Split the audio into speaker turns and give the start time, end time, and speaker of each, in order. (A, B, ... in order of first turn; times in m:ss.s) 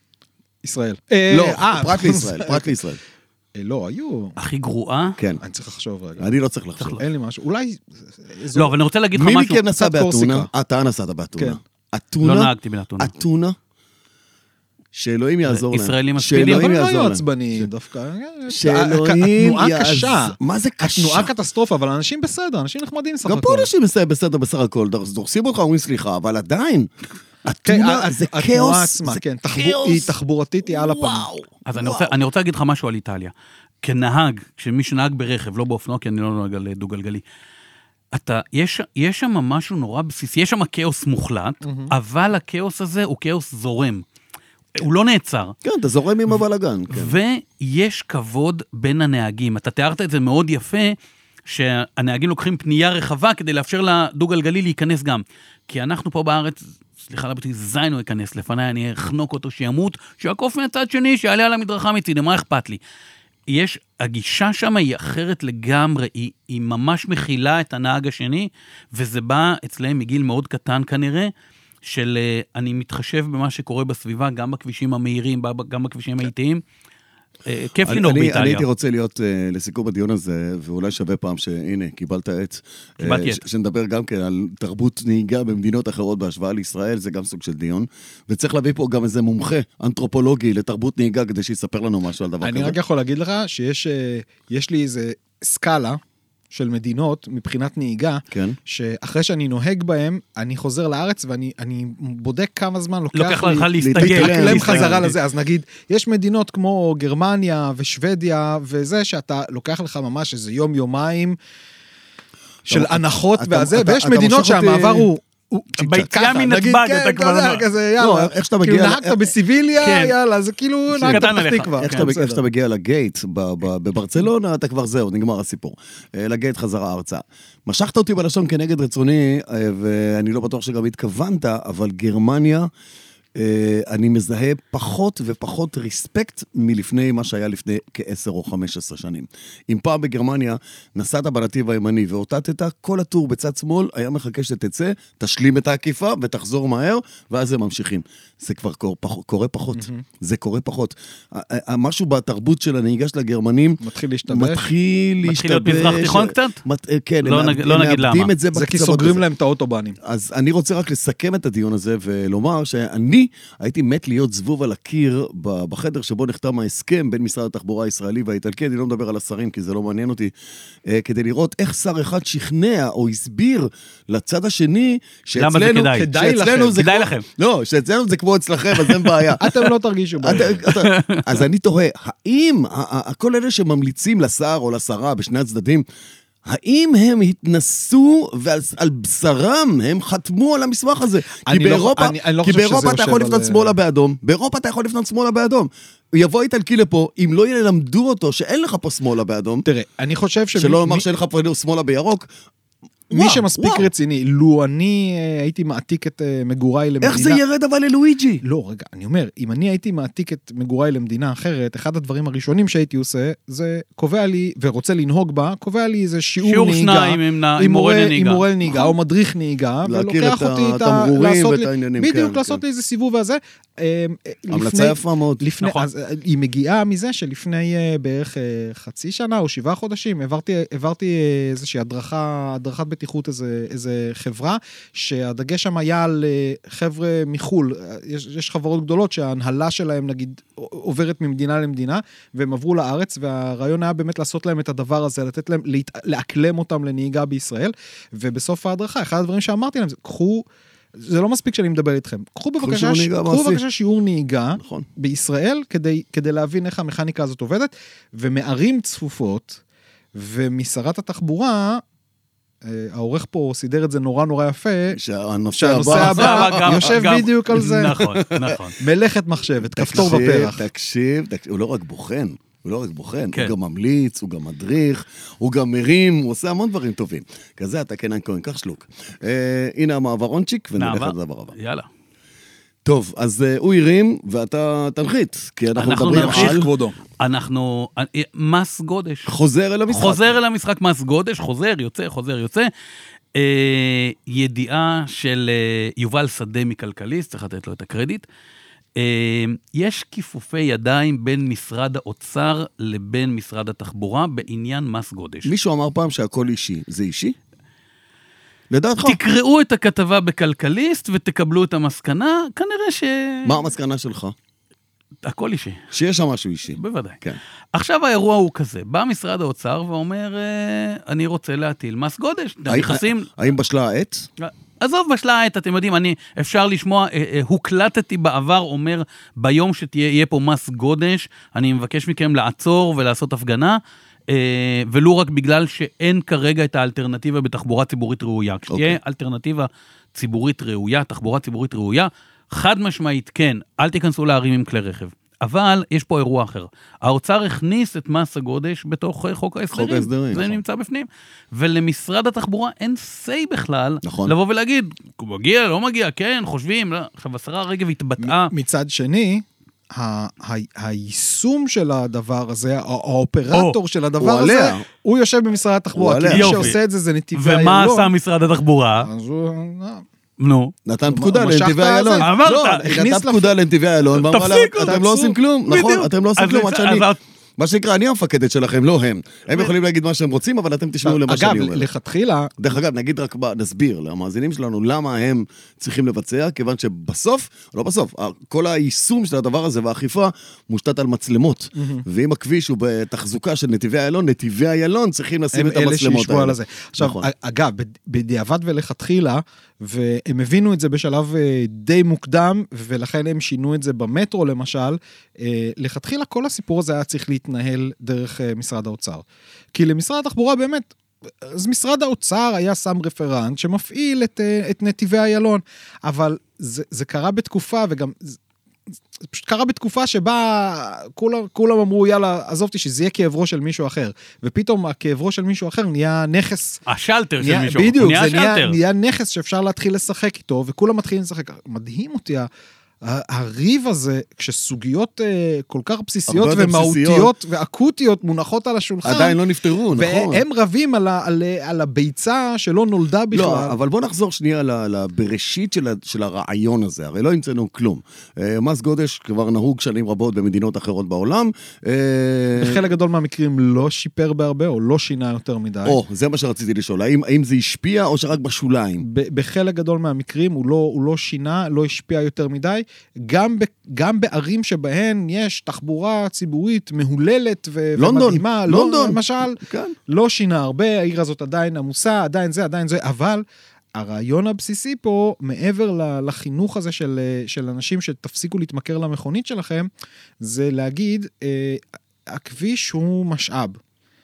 0:00.6-0:02.8 A
0:01.3-0:03.0 B
0:03.6-0:04.3 A
0:04.4-0:05.2 C
0:05.4-0:06.2 A
0:06.2-0:07.0 B
0:06.8-0:08.7 A
0:08.5-0:09.6 C
0:09.1-0:13.6 B
0:09.7-0:10.5 A
0:12.2-0:13.1 C
0:14.9-0:17.7 B
0:15.5-0:16.7 C
0:16.3-0:23.7 A
0:18.5-0:21.3 B
0:23.2-0:26.9 B
0:27.4-0:30.1 B
0:27.6-0:31.3 A
0:30.6-0:32.1 B
0:31.6-0:37.2 C
0:38.1-0:44.0 C
0:41.6-0:41.9 A
0:44.7-0:45.6 C
0:45.6-0:47.2 B
0:46.9-1:02.8 C
1:03.5-1:11.3 C
1:11.8-1:16.6 C
1:17.4-1:18.6 C
1:17.8-1:32.8 B
1:23.0-1:23.4 C
1:32.4-1:36.0 A
1:36.5-1:51.4 A
1:38.3-1:38.6 B
1:43.1-1:45.1 C
1:43.8-1:45.1 B
1:52.7-2:02.4 A
1:52.7-1:55.1 B
1:55.8-1:57.6 C
1:55.8-1:56.1 B
1:58.0-1:59.3 B
1:59.8-2:00.1 C
2:00.9-2:12.7 B
2:01.1-2:02.1 C
2:13.4-2:39.2 B
2:29.7-2:30.0 A
2:33.8-2:34.7 A
2:35.2-2:36.6 C
2:37.2-2:38.3 C
2:38.5-2:40.0 A
2:40.0-2:50.3 B
2:50.9-2:59.4 B
2:55.4-2:56.1 C
2:55.8-2:57.0 A
2:56.7-2:57.2 C
2:58.8-2:59.3 C
2:59.4-3:00.6 A
3:00.2-3:05.8 B
3:00.3-3:01.4 C
3:06.4-3:19.6 B
3:11.4-3:13.8 A
3:19.6-3:21.0 A
3:20.6-3:22.3 B
3:23.1-3:23.9 B
3:23.1-3:27.4 A
3:27.0-3:28.4 B
3:28.4-4:10.4 A
3:36.4-3:38.4 C
3:39.8-3:42.6 B
3:44.5-3:45.4 B
3:45.6-3:45.9 C
4:11.0-4:19.6 A
4:12.6-4:13.6 B
4:14.6-4:14.8 B
4:20.1-4:21.8 A
4:22.6-4:25.0 A
4:24.9-4:27.0 B
4:25.5-4:28.0 A
4:25.9-4:28.8 C
4:28.0-4:28.6 B
4:28.8-4:30.6 A
4:29.8-4:41.5 B
4:40.8-4:41.9 C
4:42.8-4:46.7 B
4:45.7-4:49.3 C
4:46.1-4:47.0 A
4:49.2-4:50.4 B
4:49.9-4:52.7 C
4:53.3-4:58.2 C
4:59.0-5:05.5 C
5:05.4-5:07.4 B
5:08.7-5:09.2 B
5:09.0-5:13.7 C
5:13.4-5:14.3 B
5:15.2-5:15.8 C
5:15.9-5:17.4 B
5:16.8-5:17.2 C
5:17.7-5:23.3 C
5:22.7-5:24.3 B
5:24.4-5:58.5 C
5:38.7-5:39.0 B
5:49.7-5:50.6 B
5:54.0-5:54.3 B
5:58.2-6:08.1 A
6:03.5-6:03.8 C
6:04.2-6:04.8 B
6:05.9-6:06.7 B
6:06.3-6:06.8 C
6:07.3-6:09.1 C
6:09.0-6:10.0 A
6:10.4-6:10.7 C
6:10.8-6:17.0 B
6:11.1-6:13.5 A
6:12.2-6:12.8 C
6:14.1-6:15.1 C
6:14.8-6:15.4 A
6:15.7-6:17.2 C
6:17.6-6:21.9 B
6:21.0-6:22.5 A
6:22.6-6:37.3 B
6:31.8-6:32.0 A
6:35.5-6:50.9 A
6:51.4-6:58.4 A
6:59.2-7:06.8 A
7:06.9-7:08.8 C
7:07.4-7:12.5 A
7:13.0-7:19.4 A
7:16.3-7:17.3 B
7:19.0-7:20.4 B
7:19.9-7:23.7 A
7:23.3-7:32.8 B
7:32.6-7:36.0 A
7:35.8-7:39.0 B
7:39.0-7:53.4 A
7:48.0-7:50.0 B
7:53.9-7:59.9 A
8:00.4-8:03.8 A